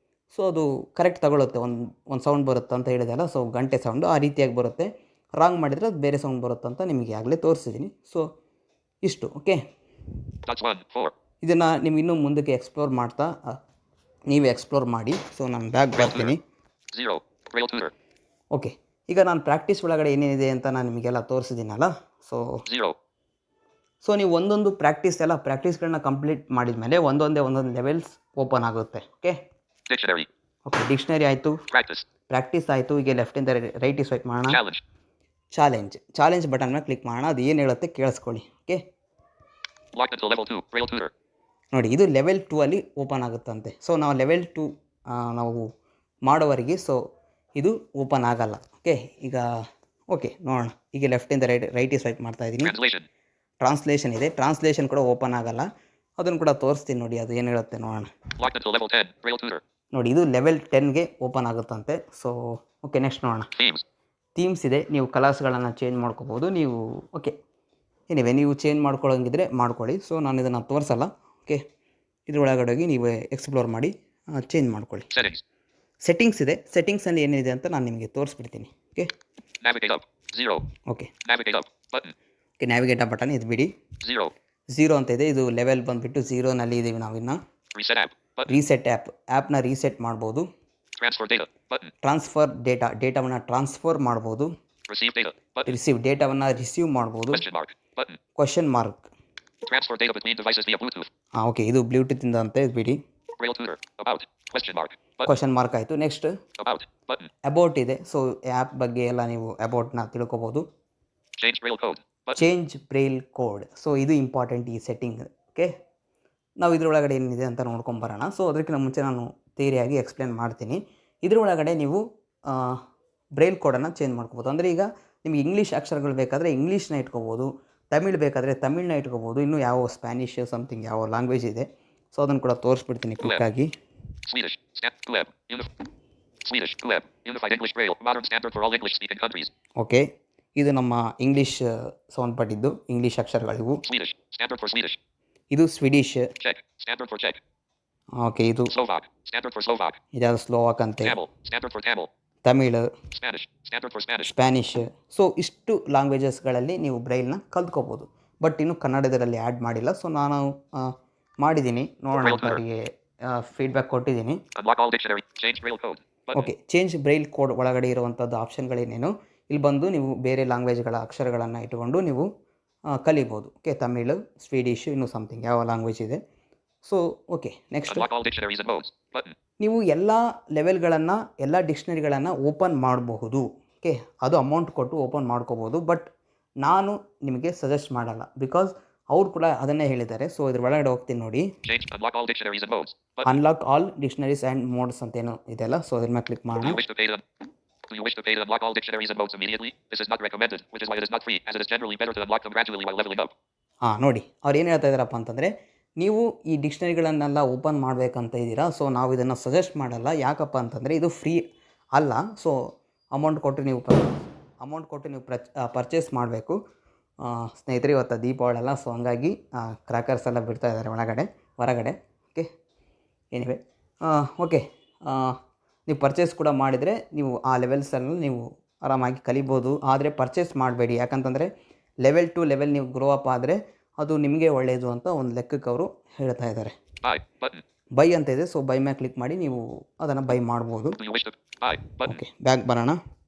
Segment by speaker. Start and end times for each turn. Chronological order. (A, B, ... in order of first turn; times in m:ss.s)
0:00.3-0:08.2 A
0:09.0-0:09.6 A
0:10.5-0:11.1 B
0:11.4-0:13.6 A
0:14.3-0:16.4 A
0:16.0-0:16.3 B
0:16.9-0:17.9 B
0:18.5-0:22.6 A
0:22.6-0:23.0 B
0:24.0-0:29.4 A
0:29.9-0:30.3 B
0:30.7-0:31.6 A
0:31.7-0:32.0 B
0:32.3-0:34.6 A
0:34.5-0:34.8 B
0:35.5-0:38.8 A
0:40.0-0:41.1 B
0:41.7-0:45.7 A
0:46.2-0:47.0 A
0:47.6-0:49.4 A
0:50.1-0:52.7 A
0:52.6-0:53.1 B
0:53.6-0:55.7 A
0:56.2-0:58.1 A
0:58.4-0:59.6 B
0:59.9-1:03.5 A
1:03.6-1:03.8 B
1:04.3-1:07.3 A
1:08.1-1:11.6 A
1:12.3-1:15.1 A
1:15.1-1:15.4 B
1:16.0-1:19.1 A
1:19.6-1:20.6 B
1:21.2-1:22.1 B
1:22.6-1:23.7 A
1:24.0-1:24.3 B
1:24.7-1:27.4 A
1:27.7-1:28.5 B
1:28.4-1:30.5 A
1:31.0-1:31.9 B
1:32.0-1:34.5 A
1:34.9-1:35.7 B
1:35.6-1:37.4 A
1:37.3-1:38.2 B
1:38.4-1:39.1 A
1:39.6-1:41.1 B
1:41.4-1:43.0 A
1:43.4-1:45.3 B
1:45.2-1:46.3 A
1:46.6-1:47.3 B
1:47.5-1:50.6 A
1:51.4-1:52.4 B
1:52.4-1:55.7 A
1:56.6-2:02.8 A
2:03.4-2:13.7 A
2:14.3-2:15.7 B
2:16.4-2:19.5 B
2:19.8-2:23.8 A
2:23.9-2:25.0 B
2:25.5-2:26.3 A
2:26.4-2:27.4 B
2:28.2-2:28.7 A
2:28.7-2:30.0 B
2:30.1-2:31.2 A
2:31.0-2:32.1 B
2:32.4-2:32.9 A
2:33.1-2:34.3 B
2:34.2-2:44.4 A
2:42.2-2:42.6 B
2:44.6-2:46.5 B
2:46.3-2:52.3 A
2:52.9-2:56.2 A
2:56.8-2:58.1 A
2:57.9-2:59.3 B
2:59.6-3:06.1 A
3:06.6-3:11.5 A
3:11.6-3:13.3 B
3:13.2-3:16.8 A
3:16.6-3:17.2 B
3:17.9-3:23.3 B
3:23.8-3:31.4 A
3:31.9-3:32.6 A
3:33.1-3:36.6 A
3:37.2-3:42.5 A
3:43.3-3:51.5 A
3:52.0-3:56.7 A
3:57.0-3:57.6 B
3:58.0-4:01.0 A
4:01.0-4:02.2 B
4:02.0-4:03.0 A